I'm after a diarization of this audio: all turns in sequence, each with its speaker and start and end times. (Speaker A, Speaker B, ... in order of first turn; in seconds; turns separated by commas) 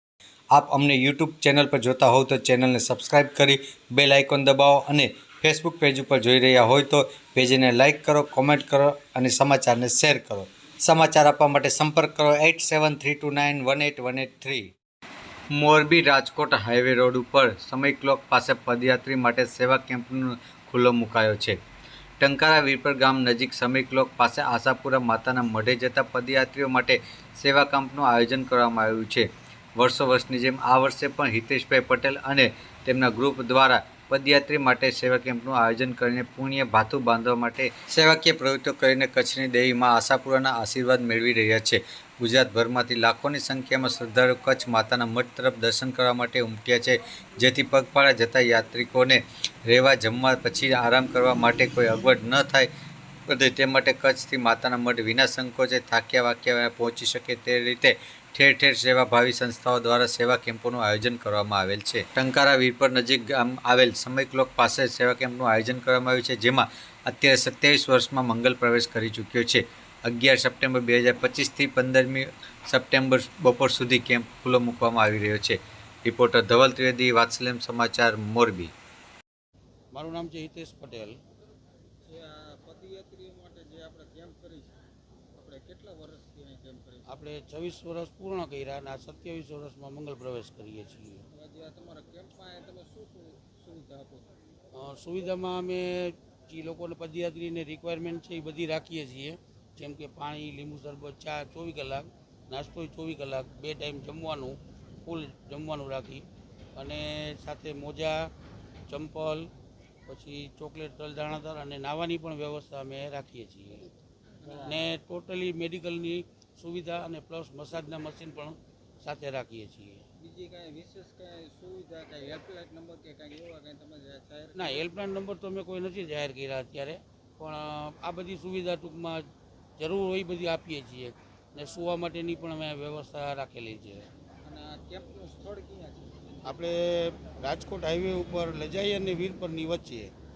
Speaker A: 0.5-14.7, Speaker A: 15.5-21.6, Speaker A: 22.2-52.7, Speaker A: 53.3-78.7, Speaker B: 79.9-81.2, Speaker C: 82.0-84.8, Speaker C: 85.3-87.2, Speaker B: 87.1-91.2, Speaker C: 91.3-94.3, Speaker B: 94.8-106.2, Speaker B: 106.8-108.3, Speaker B: 108.9-109.5, Speaker B: 110.1-113.9, Speaker C: 114.4-114.9, Speaker B: 114.5-120.0, Speaker C: 120.2-124.9, Speaker B: 124.5-129.3, Speaker B: 129.8-134.1, Speaker C: 134.4-136.7, Speaker B: 136.4-140.1